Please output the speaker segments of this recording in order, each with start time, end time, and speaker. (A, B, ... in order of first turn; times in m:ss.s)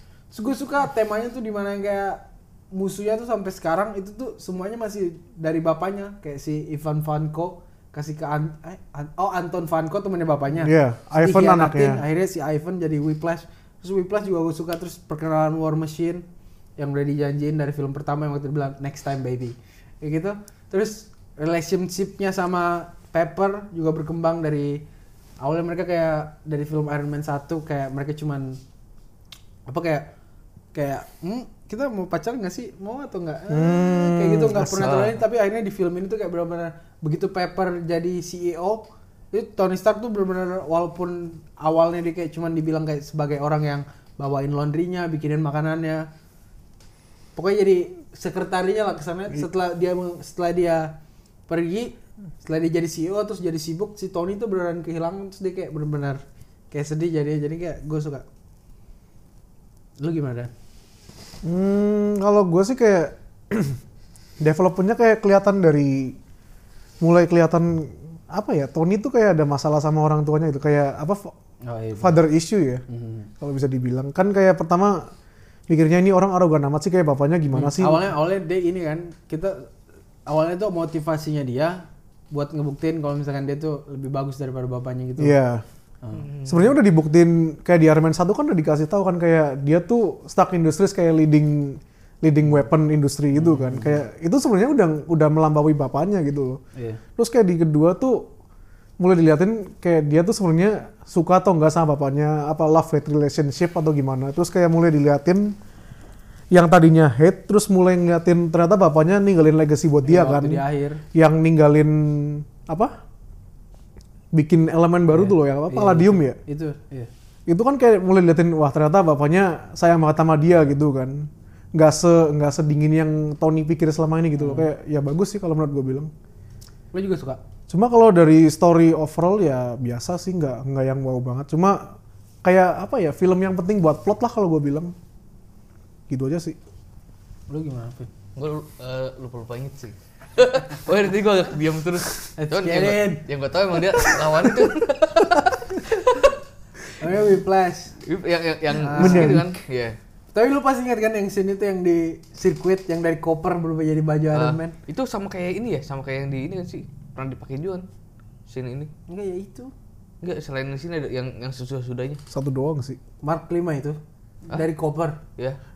0:00.3-0:16.2 A
0:10.6-0:12.0 B
0:16.8-0:24.8 A
0:25.4-0:28.6 A
0:29.7-0:30.1 A
0:30.7-0:46.1 A
0:33.5-0:34.9 B
0:34.7-0:35.2 C
0:47.4-0:51.0 A
0:51.5-0:58.2 A
1:00.0-1:00.5 A
1:01.4-1:03.8 B
1:04.4-1:06.2 B
1:07.0-1:11.4 B
1:11.6-1:12.2 A
1:12.0-1:12.8 B
1:12.9-1:13.3 A
1:13.4-1:15.1 B
1:15.7-1:18.1 B
1:17.5-1:19.7 A
1:20.3-1:25.4 A
1:25.2-1:25.6 B
1:26.1-1:26.7 C
1:26.5-1:36.6 B
1:33.4-1:34.0 A
1:37.2-1:38.3 B
1:39.0-1:45.6 B
1:46.5-1:50.6 B
1:50.0-1:51.0 A
1:51.1-1:52.9 B
1:54.3-1:56.4 B
1:55.1-1:57.1 A
1:57.5-2:06.1 B
2:04.4-2:04.7 A
2:06.9-2:07.4 A
2:07.7-2:14.9 B
2:16.1-2:16.6 B
2:17.5-2:18.1 A
2:18.4-2:26.3 C
2:22.4-2:23.3 A
2:24.0-2:24.5 A
2:25.8-2:26.1 A
2:27.0-2:28.0 A
2:28.0-2:30.0 C
2:28.8-2:29.4 A
2:28.9-2:29.5 B
2:30.3-2:34.8 A
2:34.3-2:37.9 C
2:38.5-2:38.9 C
2:39.1-2:39.7 A
2:40.2-2:42.2 C
2:42.3-2:43.0 B
2:43.2-2:45.2 A